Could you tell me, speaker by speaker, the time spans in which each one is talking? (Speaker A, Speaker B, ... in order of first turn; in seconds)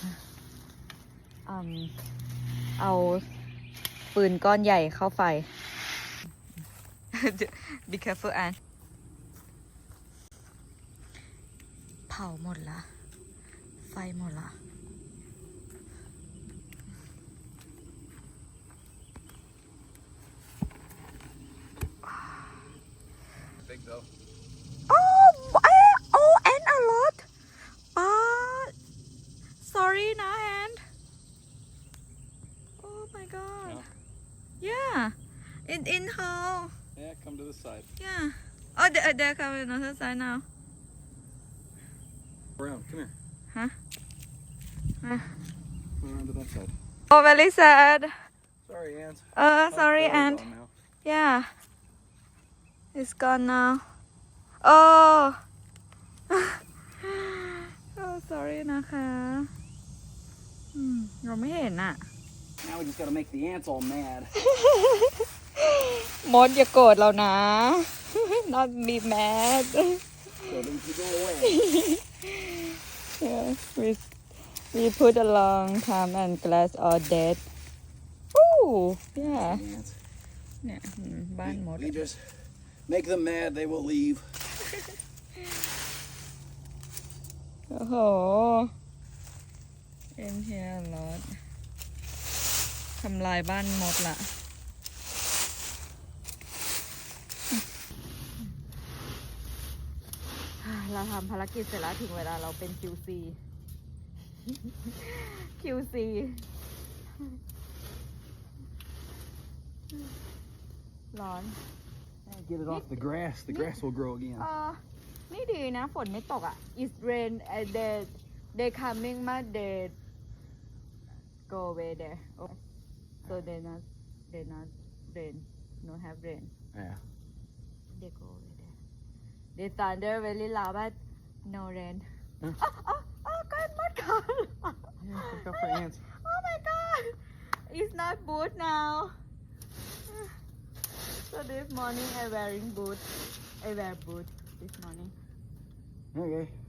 Speaker A: 1.4-1.9, 2.8-3.2, 4.1-5.5, 7.1-8.6, 12.1-12.9, 13.8-14.6, 24.9-27.3, 27.9-28.7, 29.6-30.8, 32.8-33.8, 34.6-35.1, 35.6-36.7, 38.0-40.4, 45.0-45.3, 47.1-48.1, 49.4-50.5, 51.0-51.5, 52.9-53.8, 54.6-55.4, 56.3-59.5, 60.7-62.0, 64.4-70.0, 71.4-74.1, 74.7-77.4, 78.3-79.6, 80.6-82.0, 87.7-88.7, 90.2-91.4, 93.0-94.3, 100.6-103.4, 104.5-106.5, 111.1-111.6, 112.7-113.8, 114.4-120.0, 121.5-122.6, 123.2-126.5, 127.9-128.7, 129.6-132.1, 132.6-139.1, 141.2-145.1
Speaker B: 23.6-24.1, 37.0-37.9, 42.6-43.1, 46.0-46.7, 48.6-50.7, 62.6-64.3, 70.5-71.6, 79.2-79.9, 81.4-84.3, 112.2-114.5, 126.7-127.0, 135.0-136.0, 146.1-146.5